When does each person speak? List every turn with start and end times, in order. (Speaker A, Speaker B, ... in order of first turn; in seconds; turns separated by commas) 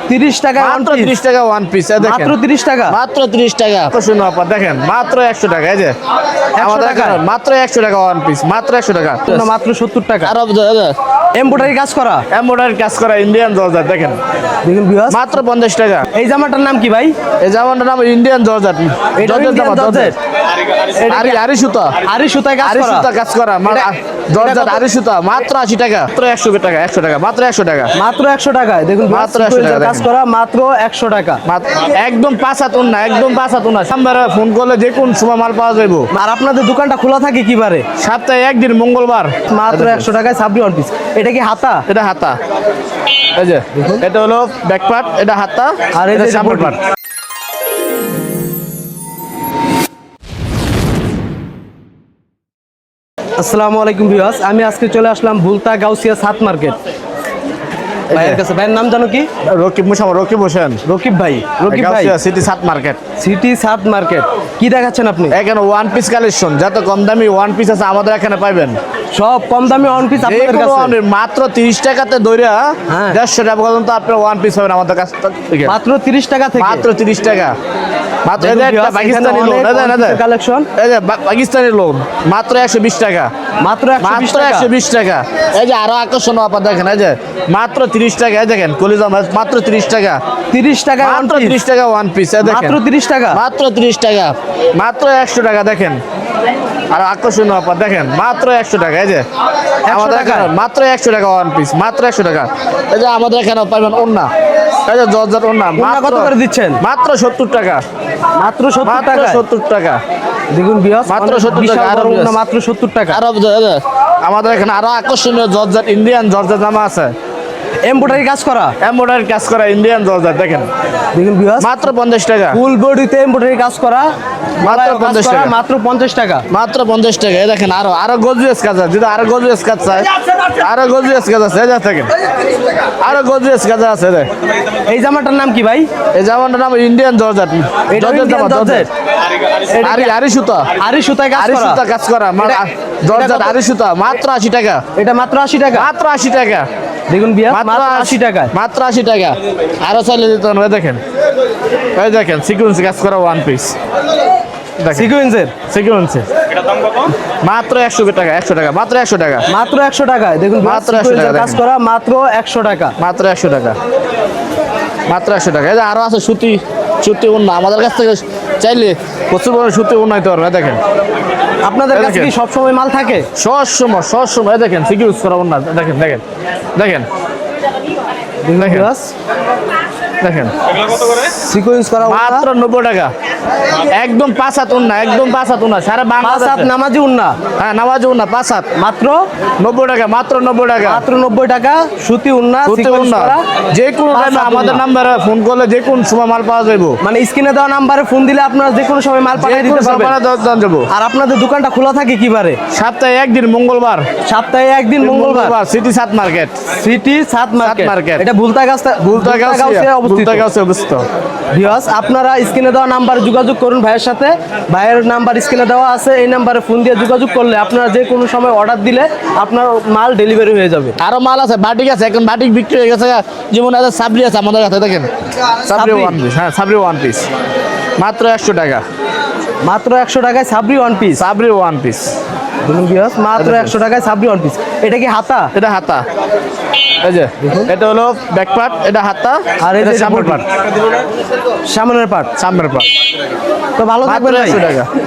Speaker A: 0.1-1.1, Speaker B: 0.6-2.4, Speaker A: 2.0-3.0, Speaker B: 2.9-6.0, Speaker A: 6.6-7.2, Speaker B: 6.6-9.5, Speaker A: 9.3-10.3, Speaker B: 10.2-10.9, Speaker A: 11.3-12.2, Speaker B: 12.3-14.2, Speaker A: 14.6-15.4, Speaker B: 15.1-16.1, Speaker A: 16.1-17.1, Speaker B: 17.4-20.1, Speaker A: 19.2-20.2, Speaker A: 20.9-21.4, Speaker B: 21.1-21.9, Speaker A: 22.0-23.1, Speaker B: 22.6-27.9, Speaker A: 23.7-24.8, Speaker A: 27.9-31.4, Speaker B: 29.1-30.1, Speaker B: 31.5-36.1, Speaker A: 36.1-37.9, Speaker B: 38.0-40.1, Speaker A: 39.5-41.9, Speaker B: 41.9-42.4, Speaker B: 43.4-46.8, Speaker A: 43.7-44.0, Speaker A: 45.9-46.8, Speaker A: 53.4-56.8, Speaker B: 58.1-58.4, Speaker A: 58.1-59.3, Speaker B: 59.5-60.8, Speaker A: 60.8-62.1, Speaker B: 61.7-63.0, Speaker A: 63.2-65.4, Speaker B: 65.3-68.8, Speaker A: 69.1-71.0, Speaker B: 70.2-75.7, Speaker A: 72.9-73.2, Speaker A: 75.7-76.9, Speaker B: 76.6-77.5, Speaker B: 78.2-80.2, Speaker A: 78.4-80.7, Speaker B: 80.8-83.3, Speaker A: 83.6-84.7, Speaker B: 84.0-90.2, Speaker A: 90.5-91.6, Speaker B: 91.0-92.8, Speaker A: 92.4-93.4, Speaker B: 93.3-96.0, Speaker B: 96.9-99.2, Speaker A: 99.8-100.5, Speaker B: 99.9-104.3, Speaker B: 104.8-107.8, Speaker A: 105.8-106.8, Speaker A: 108.4-109.4, Speaker B: 108.8-110.0, Speaker A: 110.5-113.2, Speaker B: 111.1-112.4, Speaker B: 113.1-117.1, Speaker A: 117.8-118.7, Speaker B: 118.8-120.7, Speaker A: 121.1-121.9, Speaker B: 121.6-122.6, Speaker A: 122.5-126.5, Speaker B: 124.6-125.5, Speaker B: 126.5-132.1, Speaker B: 133.0-134.3, Speaker A: 134.9-135.9, Speaker B: 136.1-138.9, Speaker A: 137.9-138.9, Speaker A: 139.7-140.1, Speaker B: 139.8-140.7, Speaker A: 140.8-141.8, Speaker B: 141.3-144.8, Speaker A: 142.4-143.6, Speaker A: 144.9-145.9, Speaker B: 145.7-146.7, Speaker A: 147.1-148.5, Speaker B: 147.5-151.0, Speaker B: 151.9-153.8, Speaker B: 154.8-155.1, Speaker A: 154.9-155.5, Speaker B: 155.7-156.3, Speaker B: 157.4-159.4, Speaker A: 159.5-162.9, Speaker B: 160.6-161.6, Speaker B: 163.0-163.8, Speaker B: 165.1-170.8, Speaker A: 171.6-173.3, Speaker B: 171.9-172.3, Speaker B: 173.4-176.2, Speaker B: 176.8-177.1, Speaker A: 178.4-179.1, Speaker B: 178.6-178.9, Speaker B: 180.2-180.5, Speaker A: 181.3-182.5, Speaker B: 182.0-183.1, Speaker B: 183.9-186.7, Speaker A: 186.2-187.4, Speaker B: 187.6-188.7, Speaker A: 188.8-189.2, Speaker B: 189.6-191.1, Speaker A: 190.8-193.4, Speaker B: 192.7-197.0, Speaker A: 194.1-194.8, Speaker A: 197.0-200.2, Speaker B: 199.3-200.9, Speaker A: 200.9-202.6, Speaker B: 202.7-204.1, Speaker A: 204.2-205.6, Speaker B: 205.0-206.6, Speaker A: 206.7-210.4, Speaker B: 207.6-208.3, Speaker B: 209.1-211.0, Speaker A: 211.5-221.0, Speaker B: 221.0-225.1, Speaker B: 225.7-227.3, Speaker A: 225.7-226.2, Speaker B: 228.0-228.8, Speaker A: 229.7-231.2, Speaker B: 231.2-232.1, Speaker A: 232.6-235.5, Speaker B: 233.4-233.7, Speaker B: 235.5-236.1, Speaker B: 237.0-240.4, Speaker A: 237.4-237.7, Speaker A: 239.6-240.5, Speaker A: 241.7-242.3, Speaker B: 242.4-242.9, Speaker A: 243.8-244.7, Speaker B: 244.0-244.9